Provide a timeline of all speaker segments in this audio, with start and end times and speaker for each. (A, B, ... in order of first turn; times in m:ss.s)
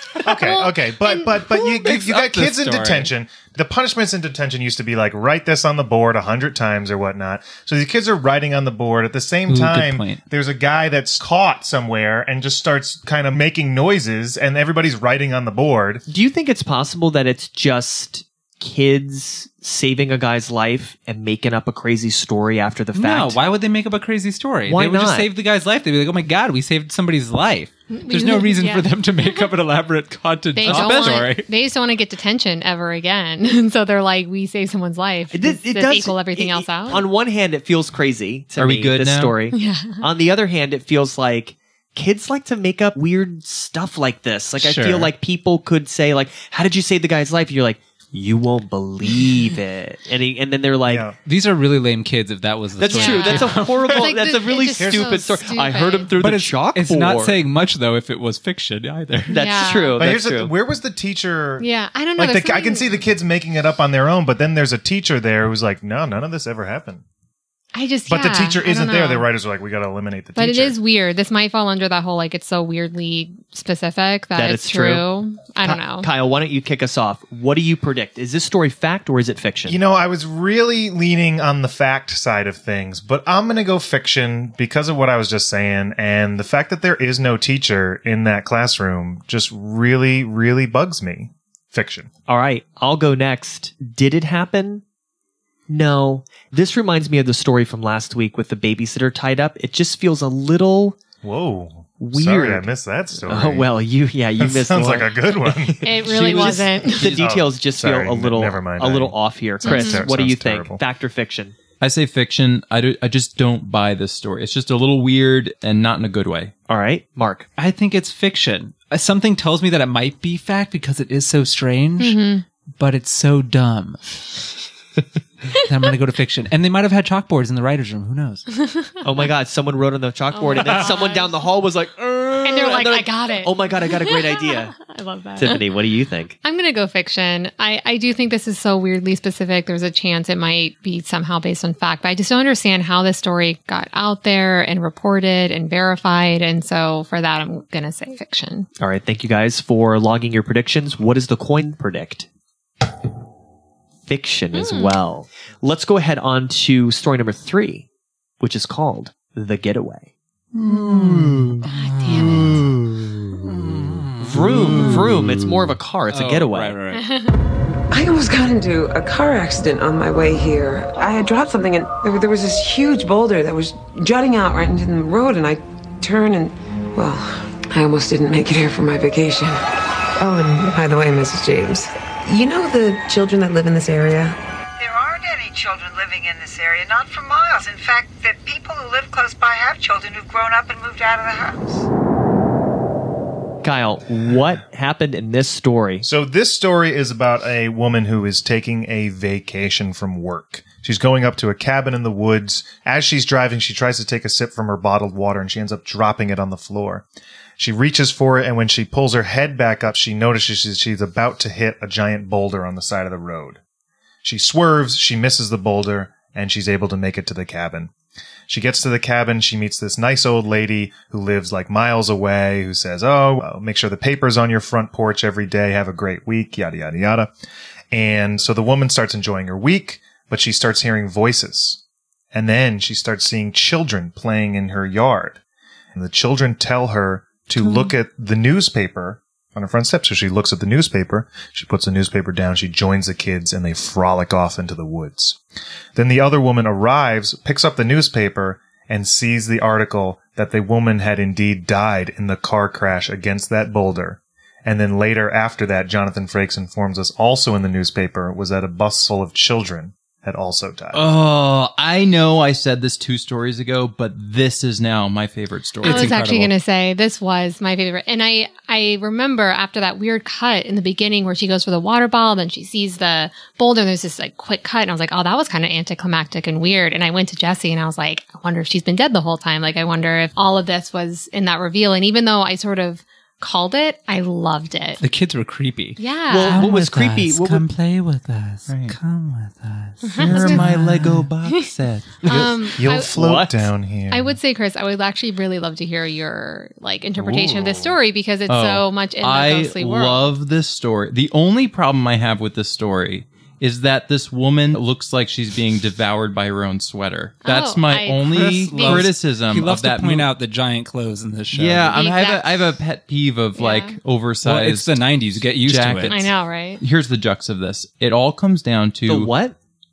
0:00.2-0:16.0 A
0:00.4-0:01.5 B
0:01.5-0:03.1 C
0:09.5-0:10.2 C
0:16.1-0:23.4 D
0:22.9-0:31.5 C
0:24.7-0:25.3 D
0:27.9-0:29.5 B
0:30.5-0:37.0 B
0:30.6-0:31.3 E
0:35.3-0:51.1 D
0:38.6-0:39.3 E
0:39.5-0:40.0 B
0:44.6-0:45.1 C
0:50.9-0:51.2 A
0:51.2-0:54.1 C
0:52.8-0:57.4 D
0:52.9-0:56.1 B
0:54.8-0:55.2 A
0:56.2-0:59.4 C
0:59.3-1:00.5 D
0:59.3-1:00.0 B
1:00.0-1:07.0 A
1:01.6-1:02.9 B
1:07.7-1:09.3 B
1:08.1-1:10.8 A
1:10.4-1:16.1 B
1:14.4-1:15.1 D
1:15.6-1:19.8 D
1:19.7-1:32.1 A
1:32.3-1:34.8 D
1:35.7-1:41.0 D
1:41.2-1:43.7 A
1:42.0-1:42.7 D
1:43.2-1:51.6 D
1:44.4-1:50.8 A
1:45.8-1:47.2 B
1:49.6-1:50.0 B
1:51.8-1:56.5 E
1:56.7-1:57.5 D
1:57.6-2:02.2 C
2:02.0-2:02.4 B
2:02.8-2:04.4 C
2:05.6-2:08.4 C
2:09.0-2:14.8 D
2:10.3-2:11.4 B
2:12.4-2:15.6 B
2:15.4-2:16.4 D
2:16.4-2:28.7 B
2:28.8-2:32.3 D
2:34.1-2:37.9 D
2:34.5-2:35.0 B
2:38.4-2:40.1 D
2:40.6-2:45.5 C
2:41.7-2:42.6 B
2:44.2-2:46.8 D
2:46.1-2:47.0 C
2:46.9-2:47.4 B
2:47.9-2:59.6 F
3:00.2-3:04.4 F
3:04.8-3:11.9 G
3:13.6-3:16.0 D
3:16.0-3:27.1 A
3:27.6-3:33.6 A
3:34.2-3:37.9 A
3:38.5-3:47.3 A
3:47.9-3:51.8 A
3:52.3-3:55.4 A
3:55.9-4:05.4 A
4:06.0-4:21.1 A
4:20.9-4:26.1 E
4:25.8-4:26.5 C
4:25.8-4:45.0 B
4:45.0-4:51.3 C
4:46.0-4:46.6 B
4:46.3-4:47.6 D
4:48.7-4:49.0 E
4:50.0-4:50.7 B
4:50.2-4:52.2 E
4:52.2-4:53.1 B
4:52.2-4:53.7 D
4:52.4-4:54.4 A
4:54.1-5:00.3 B
4:57.2-4:58.0 A
4:58.5-5:10.3 E
5:07.4-5:09.1 B
5:08.2-5:12.0 C
5:11.5-5:15.0 E
5:11.9-5:12.6 B
5:13.6-5:14.0 B
5:14.4-5:16.2 C
5:15.6-5:19.3 E
5:16.1-5:16.8 B
5:19.1-5:19.6 D